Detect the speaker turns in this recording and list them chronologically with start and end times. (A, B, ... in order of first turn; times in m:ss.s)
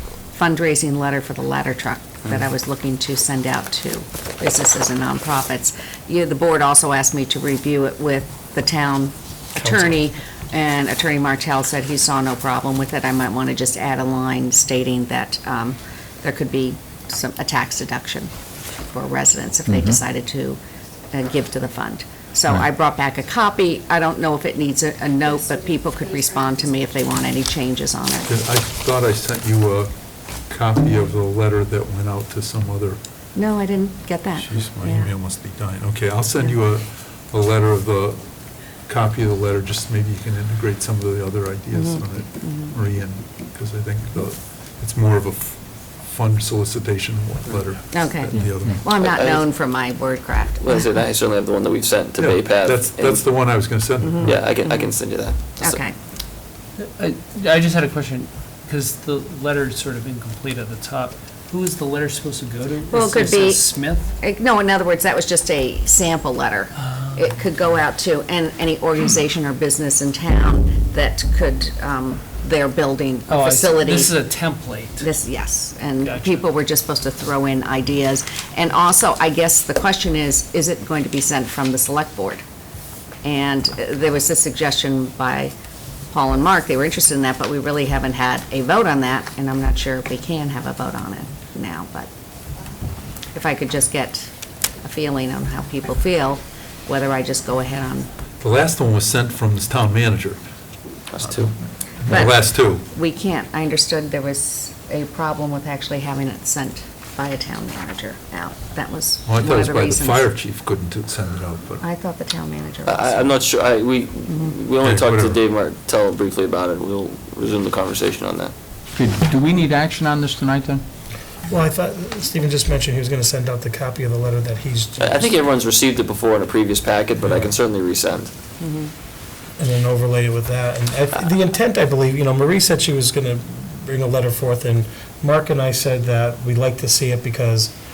0:00.3-0:18.3 A
0:09.6-0:10.0 B
0:18.9-0:20.6 A
0:19.7-0:20.0 C
0:21.1-0:28.3 A
0:28.3-0:33.0 D
0:33.4-0:35.1 A
0:34.4-0:48.9 D
0:41.7-0:42.7 A
0:47.9-0:50.9 A
0:48.3-0:48.8 C
0:49.0-0:49.5 E
0:50.6-0:53.3 E
0:52.2-0:54.6 D
0:54.0-0:54.9 A
0:54.2-0:55.8 E
0:55.6-0:55.9 A
0:56.8-1:04.1 F
1:02.9-1:14.2 A
1:13.3-1:15.1 F
1:15.0-1:22.4 A
1:16.0-1:16.5 F
1:23.2-1:25.5 A
1:26.1-1:32.1 A
1:33.3-1:38.1 A
1:38.4-1:40.4 D
1:41.1-1:41.5 E
1:41.2-1:42.9 D
1:42.1-1:50.3 A
1:49.2-1:51.8 D
1:51.8-1:53.4 A
1:52.9-1:58.5 E
1:54.8-1:55.4 D
1:59.0-2:00.8 C
2:01.5-2:05.4 B
2:05.0-2:08.3 E
2:08.6-2:08.9 A
2:09.6-2:17.8 B